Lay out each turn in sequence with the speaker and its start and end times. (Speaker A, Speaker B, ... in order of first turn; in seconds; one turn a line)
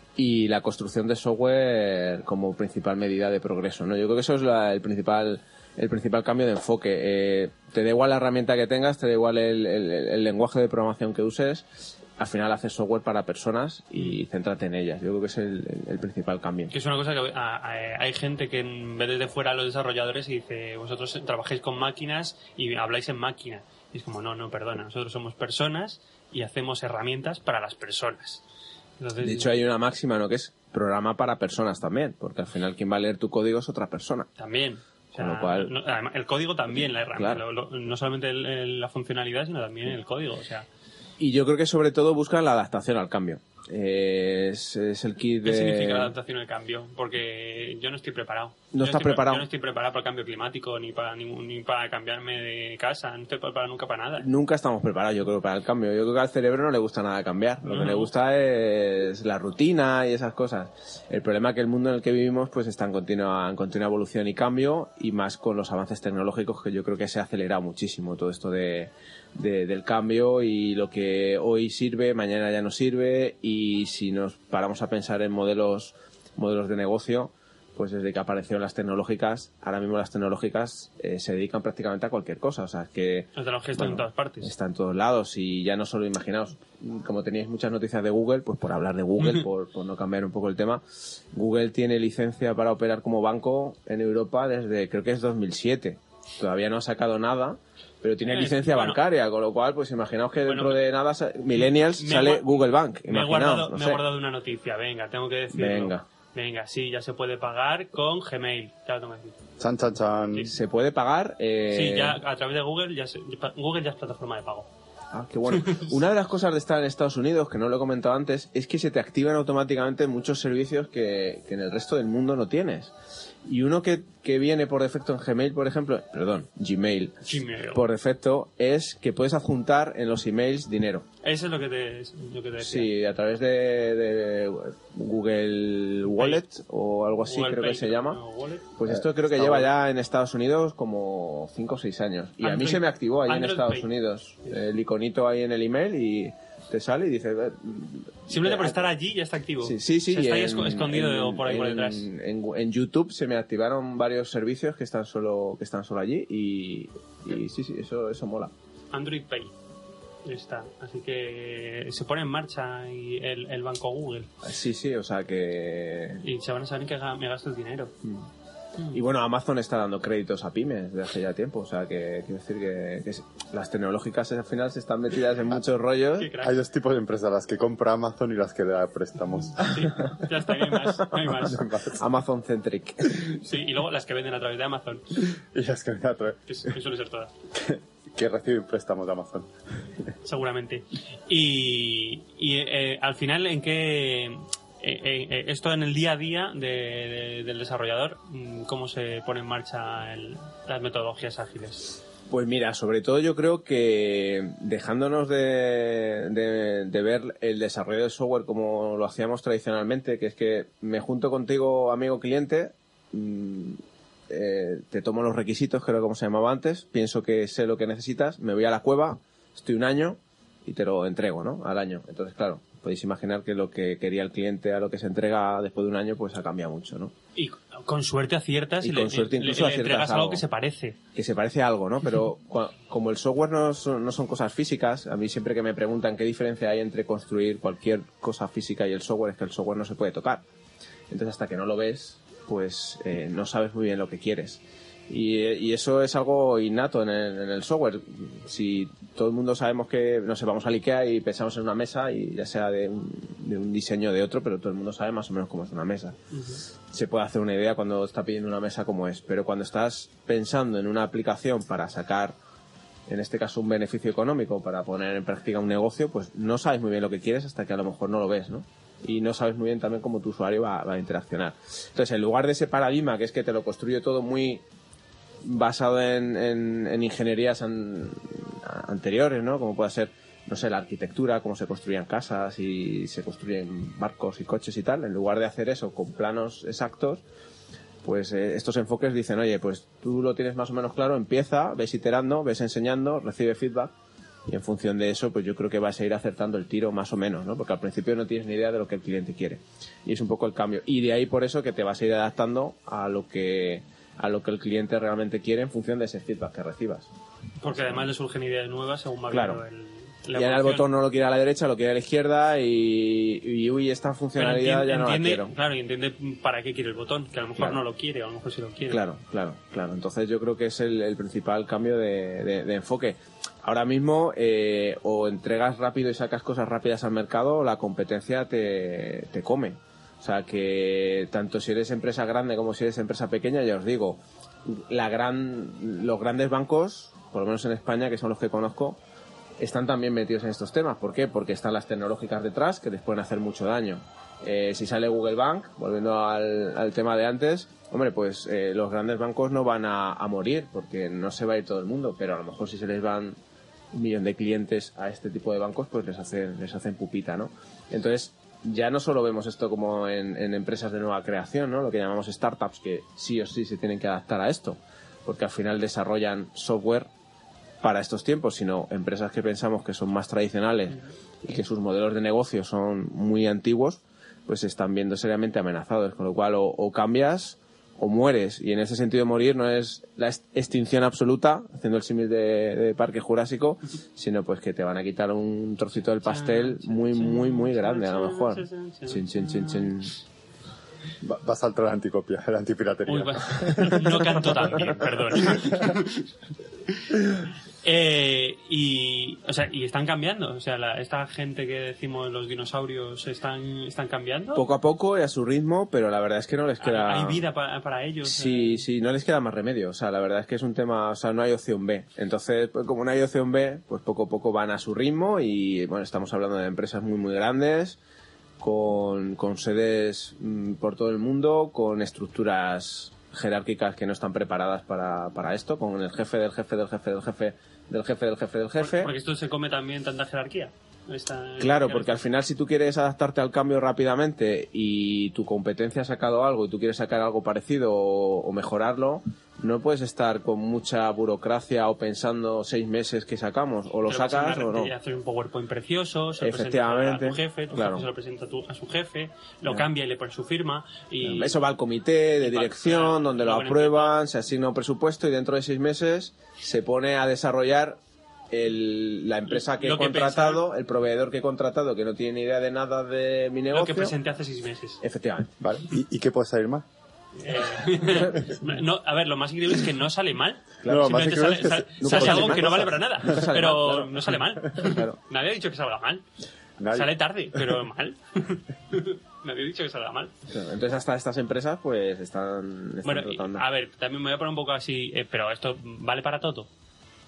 Speaker A: 0.1-16.7
Speaker B: 16.7-28.4
Speaker B: 29.0-29.5
Speaker A: 29.2-34.3
Speaker B: 34.4-40.7
Speaker A: 35.2-35.7
Speaker A: 37.2-37.4
Speaker A: 41.2-46.1
Speaker B: 45.4-54.3
Speaker A: 48.7-49.5
Speaker A: 54.2-104.0
Speaker B: 57.6-58.1
Speaker B: 83.3-84.5
Speaker B: 98.2-99.0
Speaker B: 100.4-100.8
Speaker B: 101.5-109.4
Speaker A: 105.5-106.0
Speaker C: 109.6-110.5
Speaker A: 110.5-112.2
Speaker B: 111.7-114.7
Speaker A: 115.1-122.9
Speaker B: 115.5-115.9
Speaker A: 123.5-127.2
Speaker B: 127.2-127.8
Speaker A: 127.7-131.1
Speaker B: 131.2-132.9
Speaker A: 132.6-138.2
Speaker B: 136.1-136.4
Speaker B: 137.2-138.7
Speaker A: 138.8-148.9
Speaker C: 138.9-139.6
Speaker B: 142.4-143.9
Speaker B: 148.3-152.1
Speaker A: 149.6-158.5
Speaker B: 158.9-159.5
Speaker B: 160.2-164.3
Speaker A: 164.4-166.2
Speaker B: 166.2-167.9
Speaker A: 168.9-176.3
Speaker B: 176.2-176.6
Speaker C: 176.4-179.8
Speaker B: 179.6-181.6
Speaker C: 181.3-182.0
Speaker A: 182.0-183.4
Speaker B: 183.3-185.0
Speaker C: 185.5-186.4
Speaker B: 186.5-187.3
Speaker C: 187.7-189.4
Speaker B: 190.2-202.0
Speaker A: 202.3-213.8
Speaker A: 214.3-227.1
Speaker B: 227.3-231.0
Speaker A: 228.8-230.4
Speaker A: 231.1-240.4
Speaker A: 241.1-256.2
Speaker B: 256.3-256.6
Speaker A: 256.9-262.3
Speaker A: 263.1-274.6
Speaker A: 275.4-287.2
Speaker A: 288.0-293.9
Speaker A: 294.5-307.1
Speaker B: 307.6-310.9
Speaker A: 307.7-308.1
Speaker A: 309.3-309.6
Speaker A: 310.3-315.5
Speaker B: 314.4-319.0
Speaker A: 318.9-339.0
Speaker A: 339.6-353.4
Speaker A: 353.9-367.1
Speaker A: 367.8-390.1
Speaker B: 386.2-389.9
Speaker C: 391.2-394.9
Speaker B: 393.1-396.3
Speaker B: 396.9-397.1
Speaker B: 397.8-404.7
Speaker A: 404.5-407.4
Speaker B: 406.8-408.9
Speaker A: 408.2-418.0
Speaker A: 418.6-429.1
Speaker B: 428.8-432.2
Speaker A: 431.6-444.9
Speaker B: 444.0-451.6
Speaker A: 446.4-448.0
Speaker A: 451.2-458.0
Speaker B: 452.4-454.2
Speaker A: 458.5-464.1
Speaker B: 459.5-460.6
Speaker B: 463.7-465.0
Speaker A: 465.0-465.5
Speaker C: 465.6-466.8
Speaker B: 467.4-476.2
Speaker A: 468.1-468.4
Speaker A: 470.8-471.3
Speaker C: 470.9-472.9
Speaker A: 472.0-475.2
Speaker C: 476.8-477.1
Speaker B: 476.9-480.3
Speaker A: 480.5-483.6
Speaker B: 483.0-486.7